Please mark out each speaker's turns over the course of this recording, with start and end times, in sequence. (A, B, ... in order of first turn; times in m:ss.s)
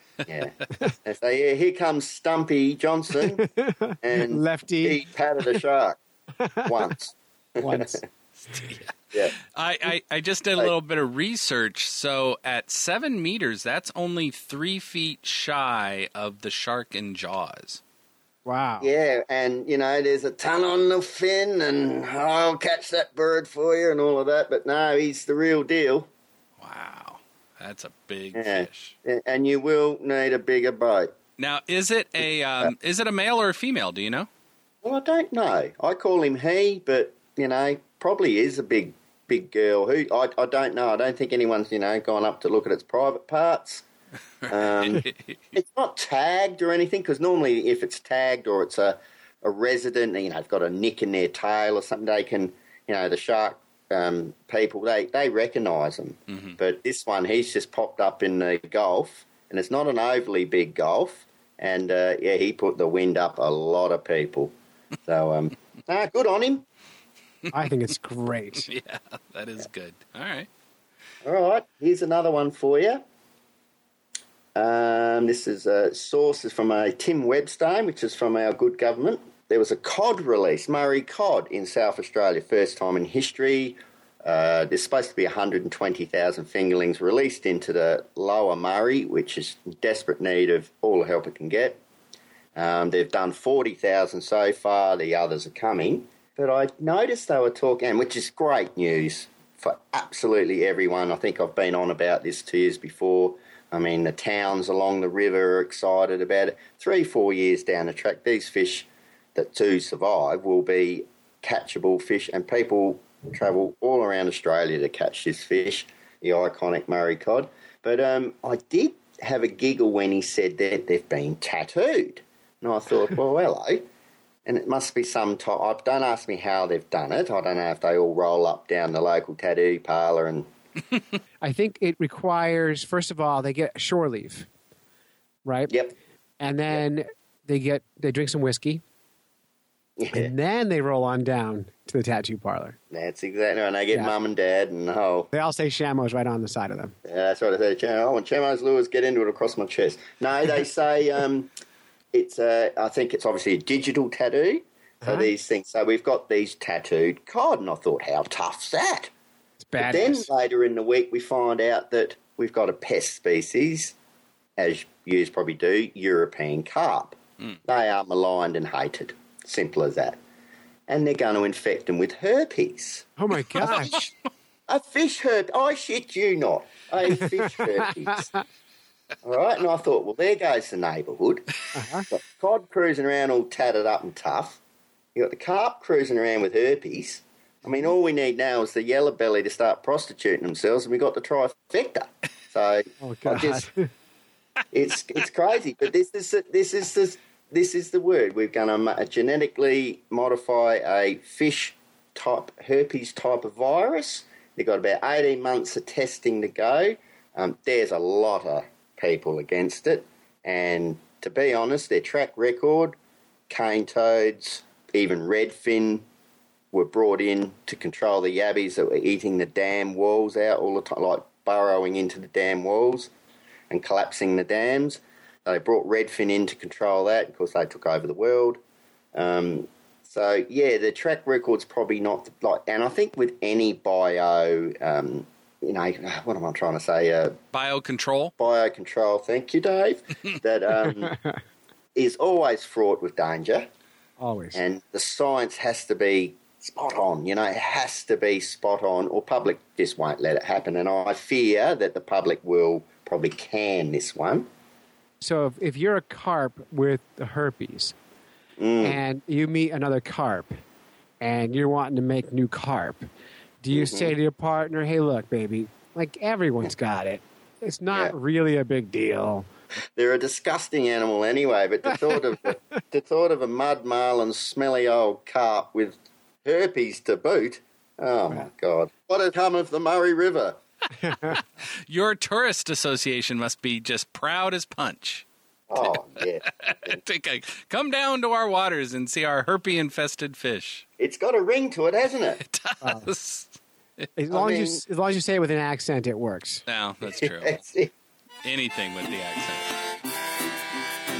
0:00.2-0:03.4 A
0:03.3-0:05.6 B
0:04.0-0:06.0 A
0:06.4-0:06.9 B
0:06.6-0:08.0 A
0:07.6-0:08.0 B
0:09.5-0:17.8 C
0:18.4-0:18.9 B
0:18.8-0:26.1 A
0:26.6-0:28.9 C
0:28.3-0:31.2 A
0:31.4-0:34.3 C
0:34.8-0:43.8 A
0:44.5-0:45.4 C
0:44.5-1:04.5 A
1:05.0-1:06.6 A
1:07.5-1:08.7 B
1:08.6-1:10.5 C
1:11.2-1:13.0 A
1:14.5-1:31.8 A
1:32.5-2:03.9 A
2:04.4-2:10.5 A
2:11.4-2:14.5 B
2:15.4-2:15.7 B
2:15.7-2:15.9 A
2:16.4-2:18.8 B
2:20.0-2:20.3 A
2:20.1-2:22.8 B
2:22.9-2:25.3 A
2:25.3-2:26.9 B
2:27.0-2:31.5 A
2:32.1-2:39.1 A
2:35.0-2:35.3 B
2:39.6-2:40.3 B
2:39.8-2:43.9 A
2:44.6-2:50.2 A
2:50.9-2:53.1 A
2:53.2-2:54.0 B
2:53.6-2:53.9 C
2:53.6-2:54.0 A
2:54.7-2:58.3 A
2:57.2-2:57.7 B
2:59.2-3:01.5 A
3:01.7-3:02.0 B
3:02.1-3:04.6 A
3:05.1-3:13.7 A
3:13.0-3:13.9 B
3:14.7-3:33.0 A
3:33.5-3:36.0 A
3:36.7-3:43.1 A
3:43.7-3:48.6 A
3:49.1-3:57.4 A
3:57.5-3:58.3 C
3:58.4-4:01.1 A
4:01.0-4:01.4 B
4:01.9-4:03.7 A
4:04.2-4:04.6 B
4:04.5-4:14.5 A
4:15.2-4:17.9 B
4:18.6-4:19.0 A
4:18.8-4:20.6 B
4:21.2-4:23.1 B
4:23.6-4:29.5 B
4:23.7-4:24.1 A
4:30.0-4:40.6 A
4:41.0-4:41.4 B
4:41.9-4:45.2 C
4:45.7-4:47.0 A
4:46.6-4:50.9 C
4:51.0-4:52.4 A
4:52.4-4:54.1 C
4:52.8-4:53.1 B
4:54.2-4:56.6 B
4:54.3-4:54.8 A
4:56.7-4:57.6 C
4:57.0-4:57.9 A
4:58.4-4:59.7 C